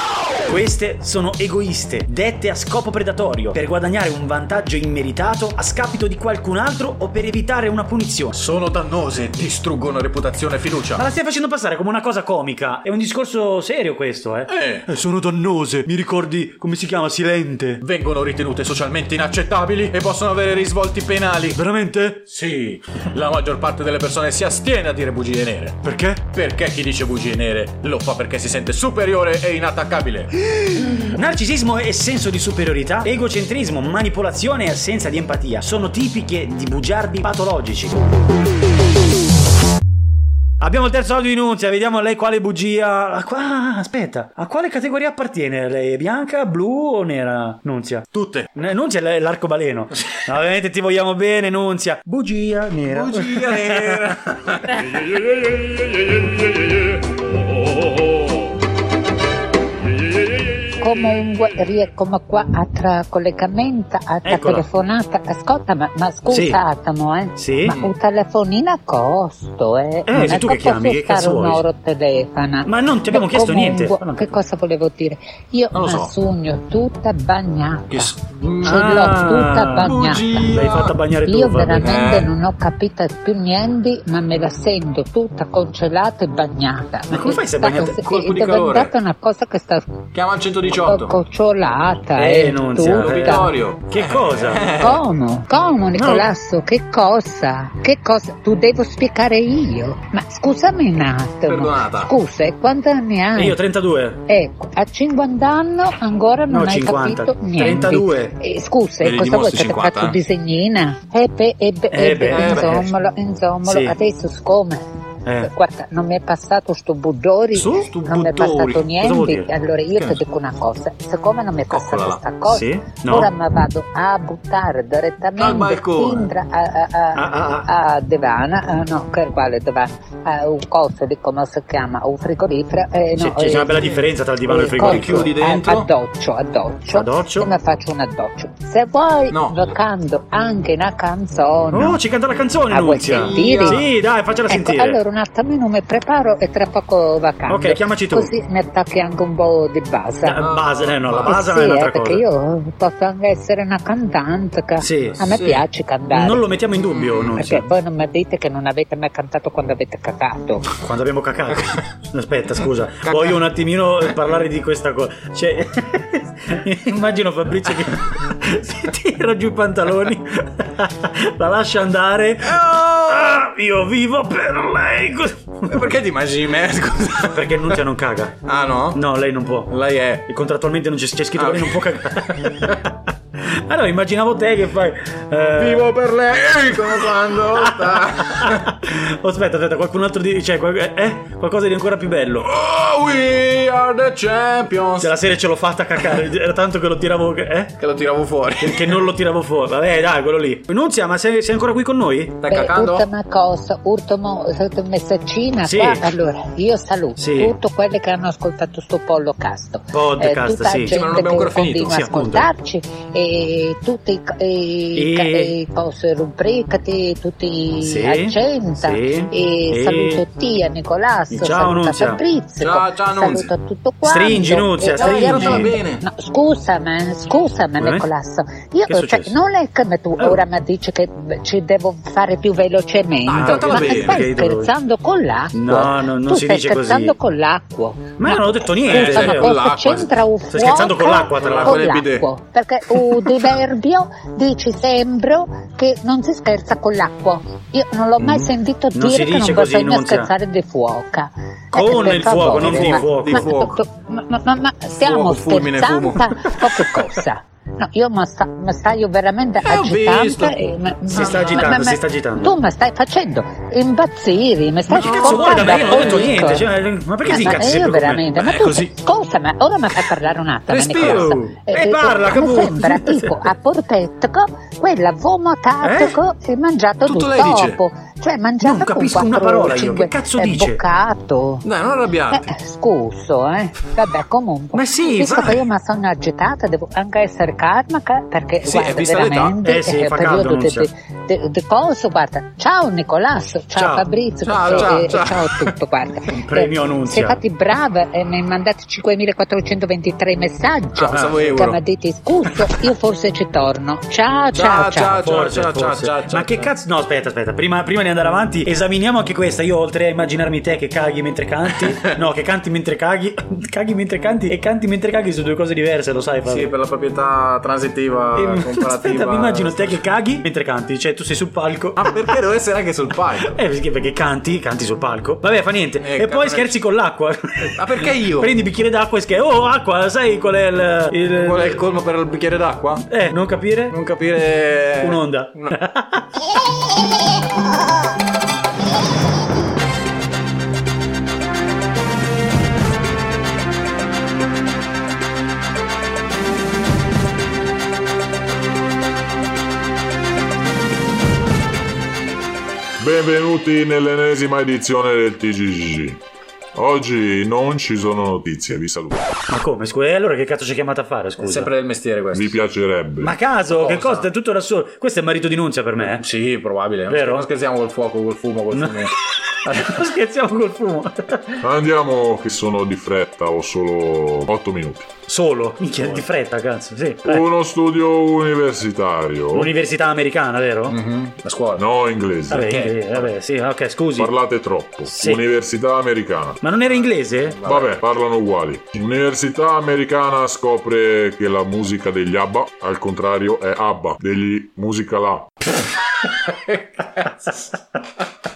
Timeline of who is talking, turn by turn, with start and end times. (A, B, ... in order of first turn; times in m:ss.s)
0:00.4-0:08.4 A
0:08.3-0:11.0 B
0:10.9-0:17.8 A
0:14.5-0:14.9 B
0:17.8-0:21.6 B
0:21.5-0:22.2 A
0:22.3-0:30.3 B
0:25.8-0:26.2 A
0:30.6-0:38.0 A
0:40.6-0:54.0 A
0:48.1-0:48.5 B
0:52.8-0:55.1 B
0:55.7-0:56.8 B
0:57.5-0:58.3 B
1:00.8-1:20.2 C
1:04.2-1:04.7 A
1:06.3-1:06.6 A
1:07.4-1:07.8 A
1:10.1-1:11.6 A
1:12.6-1:13.9 A
1:15.7-1:16.1 B
1:17.9-1:19.0 B
1:18.6-1:22.0 A
1:19.7-1:20.9 B
1:21.2-1:30.0 C
1:21.8-1:22.3 B
1:27.1-1:28.0 A
1:28.0-1:28.9 B
1:30.1-1:31.2 B
1:30.7-1:33.5 C
1:32.2-1:34.8 A
1:33.0-1:35.0 B
1:34.8-1:43.6 C
1:36.0-1:36.3 A
1:41.4-1:42.1 B
1:43.3-1:44.2 A
1:44.3-1:54.8 C
1:46.5-1:48.4 A
1:49.0-1:50.2 B
1:51.9-1:52.9 A
1:52.3-1:52.8 B
1:53.6-1:54.0 A
1:55.2-1:55.5 A
1:55.4-2:22.0 C
1:57.5-1:57.9 A
1:57.8-1:58.9 B
1:59.0-1:59.5 A
2:01.7-2:02.2 B
2:02.4-2:03.3 A
2:05.4-2:06.3 B
2:07.1-2:07.7 A
2:13.2-2:15.3 A
2:13.4-2:14.0 B
2:14.8-2:15.9 B
2:16.9-2:17.5 A
2:19.3-2:19.6 B
2:21.7-2:25.0 A
2:22.7-2:23.8 C
2:23.1-2:23.8 B
2:24.5-2:30.5 C
2:27.5-2:28.3 A
2:30.2-2:32.2 A
2:30.4-2:31.3 B
2:31.2-2:36.5 C
2:34.8-2:35.3 A
2:35.3-2:35.6 B
2:36.1-2:37.7 A
2:36.9-2:37.3 B
2:37.4-2:40.6 C
2:40.8-2:55.9 A
2:43.0-2:43.4 B
2:52.5-2:53.3 B
2:55.7-2:57.8 B
2:57.3-2:58.4 A
2:58.4-2:59.0 B
2:58.9-2:59.7 A
2:59.7-3:00.2 B
3:00.2-3:02.8 A
3:01.3-3:02.9 B
3:03.4-3:05.9 A
3:05.5-3:08.7 B
3:07.6-3:12.5 A
3:12.4-3:15.1 B
3:15.0-3:17.7 A
3:17.8-3:19.0 B
3:18.6-3:22.4 A
3:22.4-3:23.1 B
3:22.5-4:26.7 C
3:25.6-3:26.1 A
3:27.2-3:27.6 A
3:29.9-3:31.0 A
3:30.9-3:32.0 B
3:31.8-3:32.5 A
3:34.9-3:35.6 A
3:37.8-3:40.2 A
3:41.3-3:42.2 A
3:42.6-3:43.5 B
3:44.0-3:45.8 A
3:44.9-3:46.0 B
3:47.8-3:48.1 A
3:48.9-3:49.4 A
3:50.2-3:50.4 A
3:53.2-3:54.2 B
3:53.3-3:54.7 A
3:55.5-3:57.2 A
3:58.2-3:59.5 A
3:58.9-4:00.2 B
4:00.5-4:01.8 A
4:01.4-4:02.3 B
4:08.2-4:08.5 B
4:08.9-4:10.3 A
4:11.7-4:13.4 A
4:12.3-4:13.8 B
4:15.0-4:16.6 B
4:19.6-4:20.6 B
4:21.1-4:22.6 A
4:21.1-4:21.7 B
4:24.9-4:28.3 A
4:24.9-4:26.5 B
4:27.2-4:41.6 C
4:28.4-4:28.9 B
4:30.7-4:31.4 B
4:30.9-4:33.5 A
4:35.8-4:36.2 A
4:37.0-4:37.8 B
4:38.6-4:40.8 A
4:41.6-4:42.5 B
4:42.3-5:05.4 C
4:44.7-4:45.6 A
4:48.6-4:49.6 B
4:49.6-4:50.9 A
4:53.8-4:54.1 A
4:54.4-4:55.7 B
4:54.7-4:55.0 A
4:56.4-4:57.4 A
5:00.9-5:01.8 B
5:01.1-5:01.6 A
5:04.5-5:06.7 B
5:05.1-5:16.7 A
5:16.4-5:20.0 B
5:18.3-5:22.1 A
5:22.0-5:23.6 B
5:23.4-5:31.8 A
5:26.0-5:26.8 B
5:27.6-5:28.5 B
5:31.3-5:33.1 B
5:33.1-5:34.0 A
5:33.9-5:35.8 B
5:35.0-5:36.3 A
5:53.0-5:56.2 D
5:56.7-5:59.2 D
5:59.5-6:01.7 A
6:01.4-6:02.6 B
6:02.3-6:03.4 D
6:03.2-6:06.2 A
6:03.7-6:04.3 B
6:06.0-6:09.1 B
6:07.1-6:07.5 A
6:08.7-6:09.1 A
6:09.6-6:10.0 B
6:09.7-6:11.5 A
6:11.6-6:15.1 D
6:15.3-6:17.5 A
6:17.2-6:19.7 D
6:19.5-6:21.0 A
6:20.9-6:21.8 B
6:21.8-6:22.7 D
6:22.5-6:24.3 A
6:22.6-6:23.3 B
6:24.2-6:26.6 D
6:25.1-6:25.4 A
6:26.6-6:27.6 A
6:27.5-6:27.9 B
6:27.6-6:35.5 D
6:36.1-6:37.7 B